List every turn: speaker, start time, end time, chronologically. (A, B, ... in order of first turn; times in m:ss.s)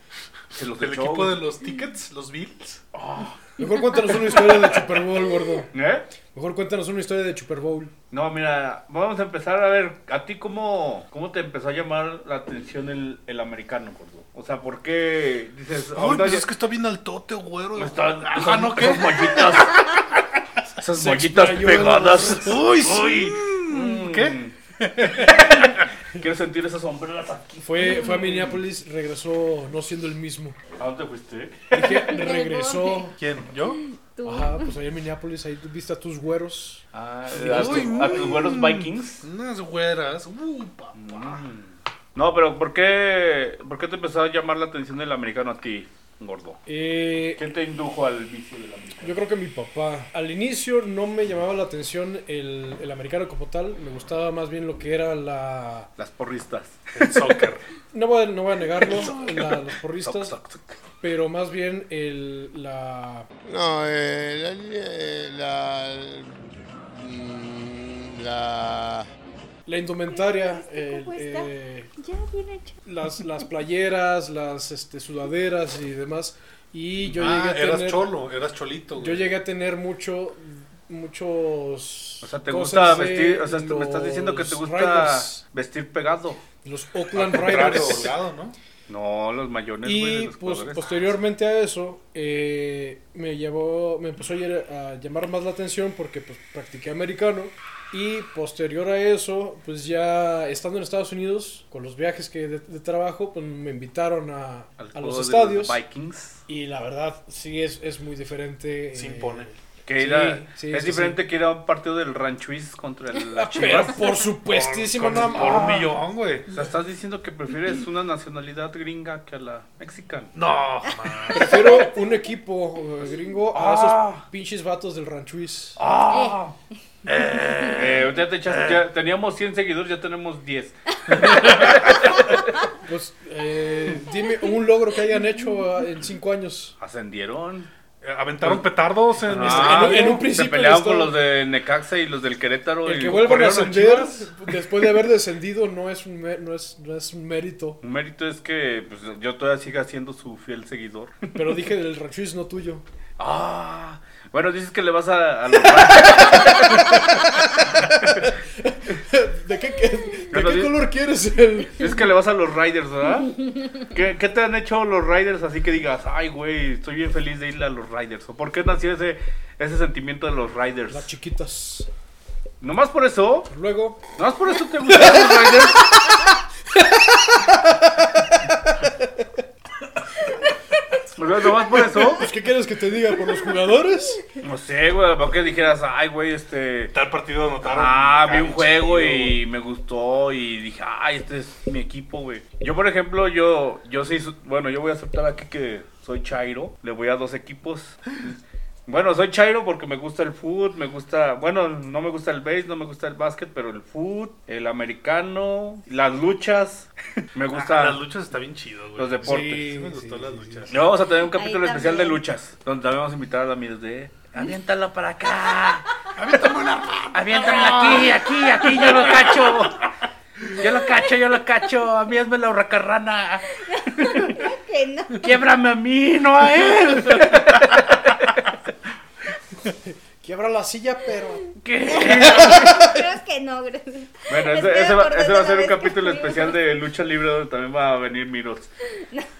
0:00.5-0:01.4 A
0:00.7-0:02.8 B
0:02.9-0:03.4 A
0:03.6-0:05.7 C
0:05.7-0:06.1 A
0:06.3-0:07.9 C
0:08.1-0:16.4 A
0:15.9-0:19.8 B
0:17.8-0:20.0 A
0:20.8-0:28.6 A
0:21.0-0:22.6 C
0:22.3-0:25.8 B
0:27.6-0:30.6 C
0:30.8-0:31.9 A
0:31.7-0:33.2 C
0:32.1-0:33.1 D
0:33.2-0:33.8 B
0:33.8-0:34.7 D
0:34.2-0:36.8 C
0:36.9-0:39.2 A
0:37.3-0:41.5 B
0:40.9-0:46.6 A
0:46.6-0:47.4 C
0:47.4-0:49.2 A
0:49.0-0:55.9 C
0:56.0-0:57.2 A
0:56.9-0:57.6 B
0:57.9-1:00.4 C
0:58.8-1:00.8 A
1:01.0-1:03.3 C
1:03.5-1:06.1 E
1:07.0-1:09.0 E
1:09.6-1:11.9 C
1:10.1-1:12.8 D
1:12.8-1:18.1 C
1:17.0-1:19.3 B
1:19.0-1:25.4 C
1:22.2-1:26.4 A
1:26.6-1:28.2 C
1:27.1-1:28.6 B
1:28.9-1:31.1 A
1:29.8-1:45.8 C
1:44.8-1:46.4 A
1:46.5-1:51.2 C
1:48.9-1:49.5 B
1:49.8-1:54.2 A
1:53.3-1:55.9 C
1:54.4-1:56.5 B
1:55.1-1:55.9 A
1:56.5-2:00.3 A
2:00.3-2:01.7 B
2:01.3-2:05.8 C
2:01.4-2:01.9 D
2:03.5-2:04.2 A
2:05.8-2:06.5 A
2:06.0-2:06.4 D
2:07.0-2:08.8 B
2:07.4-2:07.9 D
2:07.7-2:12.5 A
2:11.1-2:11.9 B
2:11.2-2:11.8 C
2:12.8-2:16.7 C
2:16.8-2:17.7 A
2:18.0-2:20.3 B
2:18.4-2:24.3 A
2:19.3-2:21.1 C
2:22.8-2:27.8 C
2:23.1-2:24.0 B
2:27.8-2:31.5 A
2:31.3-2:32.8 C
2:33.2-2:38.3 A
2:36.2-2:41.9 C
2:40.3-2:40.9 A
2:41.8-2:51.1 A
2:50.9-2:51.9 C
2:52.6-2:53.5 A
2:53.5-2:54.0 C
2:54.2-2:56.3 A
2:54.9-2:55.2 C
2:56.7-2:59.3 C
3:01.2-3:02.3 A
3:01.8-3:04.2 C
3:04.4-3:06.9 A
3:06.9-3:09.4 B
3:07.6-3:28.0 A
3:27.5-3:30.8 B
3:29.0-3:29.5 A
3:29.2-3:30.8 C
3:30.7-3:35.9 A
3:31.3-3:32.2 D
3:36.1-3:39.7 B
3:37.1-3:39.9 A
3:40.5-3:44.4 A
3:43.6-3:45.4 D
3:45.2-3:48.7 A
3:49.7-3:51.6 C
3:51.6-3:52.9 A
3:51.8-3:56.6 D
3:52.2-3:53.0 C
3:54.3-3:58.7 A
3:59.0-3:59.3 D